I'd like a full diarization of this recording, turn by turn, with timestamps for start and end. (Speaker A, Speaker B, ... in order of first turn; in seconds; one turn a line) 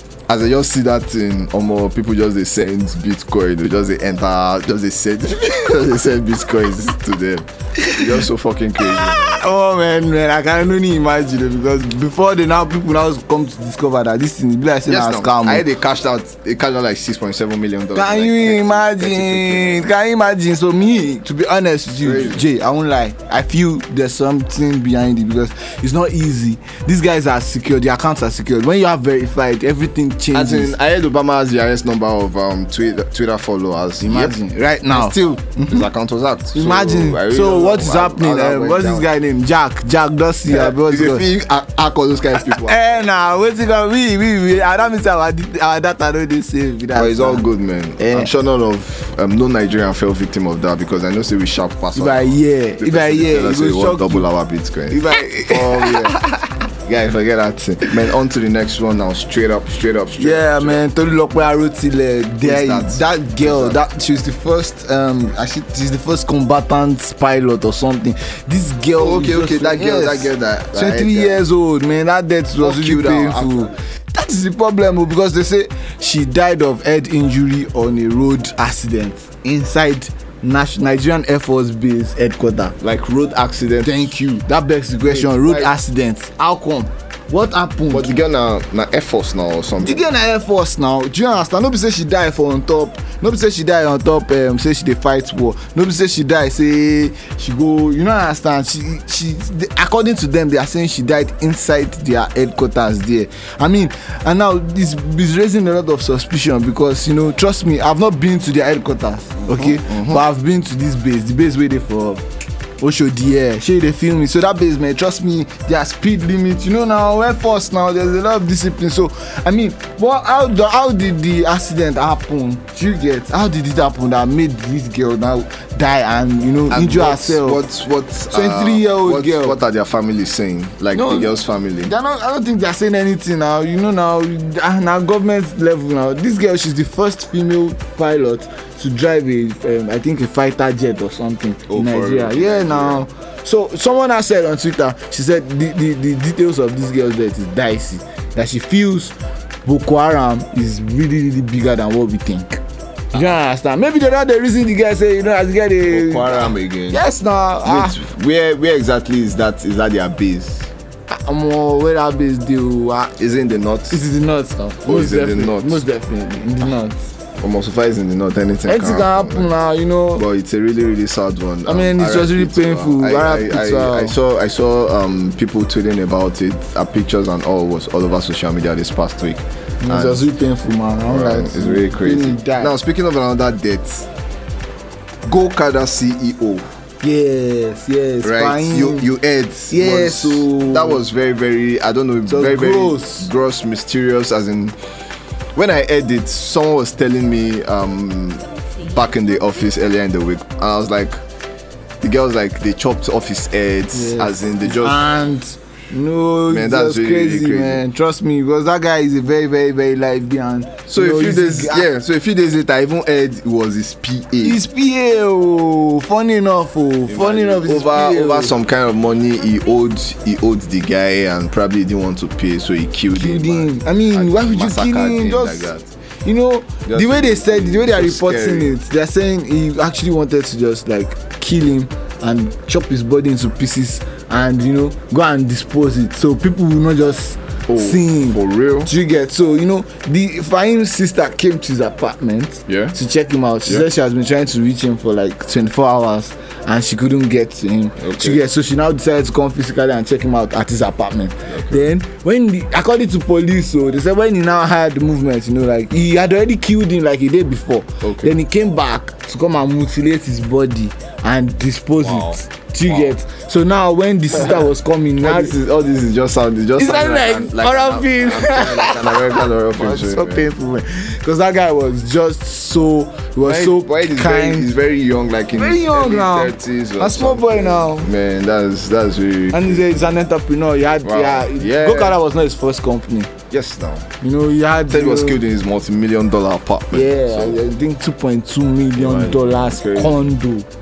Speaker A: 0.3-9.4
Speaker B: 7.8-8.2
Speaker B: 8.8-15.7
Speaker A: 14.9-19.9
Speaker B: 17.9-30.8
Speaker A: 22.0-22.4
Speaker A: 30.3-34.4
Speaker B: 34.0-35.9
Speaker A: 34.9-39.1
Speaker B: 36.5-41.3
Speaker A: 40.5-43.0
Speaker B: 42.4-47.5
Speaker A: 47.0-56.2
Speaker B: 48.0-48.3
Speaker B: 52.0-54.3
Speaker B: 54.9-56.2
Speaker A: 56.9-60.8
Speaker B: 60.2-82.8
Speaker A: 62.4-63.8
Speaker A: 69.0-71.4
Speaker A: 72.6-73.7
Speaker A: 82.8-84.1
Speaker B: 83.8-88.1
Speaker A: 85.0-85.7
Speaker A: 87.9-90.0
Speaker B: 89.8-112.2
Speaker A: 109.5-110.2
Speaker B: 112.8-127.6
Speaker A: 126.7-131.9
Speaker B: 128.3-129.6
Speaker B: 130.9-152.6
Speaker A: 141.7-143.1
Speaker B: 153.1-158.0
Speaker A: 155.9-157.0
Speaker A: 157.6-160.7
Speaker B: 161.1-163.2
Speaker A: 163.2-164.0
Speaker B: 163.9-167.0
Speaker A: 164.8-165.8
Speaker A: 167.4-169.6
Speaker B: 168.7-170.2
Speaker A: 170.2-180.3
Speaker B: 171.7-174.2
Speaker B: 179.8-182.7
Speaker A: 181.1-184.1
Speaker A: 185.3-186.7
Speaker B: 187.0-189.1
Speaker A: 188.2-194.8
Speaker B: 189.7-191.0
Speaker B: 192.3-193.3
Speaker A: 195.6-201.2
Speaker A: 202.0-205.1
Speaker B: 203.9-211.9
Speaker A: 206.5-207.8
Speaker A: 210.9-214.6
Speaker B: 214.4-218.5
Speaker A: 217.1-225.9
Speaker B: 223.1-225.7
Speaker B: 226.2-265.6
Speaker A: 226.9-228.8
Speaker A: 237.7-238.9
Speaker A: 242.7-242.9
Speaker A: 248.0-248.4
Speaker A: 251.5-251.9
Speaker A: 258.0-258.4
Speaker A: 262.0-263.1
Speaker A: 264.3-264.7
Speaker A: 265.2-270.5
Speaker B: 266.8-274.7
Speaker A: 273.4-280.1
Speaker B: 275.5-278.1
Speaker B: 279.5-283.3
Speaker A: 281.0-282.2
Speaker A: 283.5-284.1
Speaker B: 284.2-285.4
Speaker A: 284.9-287.6
Speaker B: 286.9-290.7
Speaker A: 288.9-290.3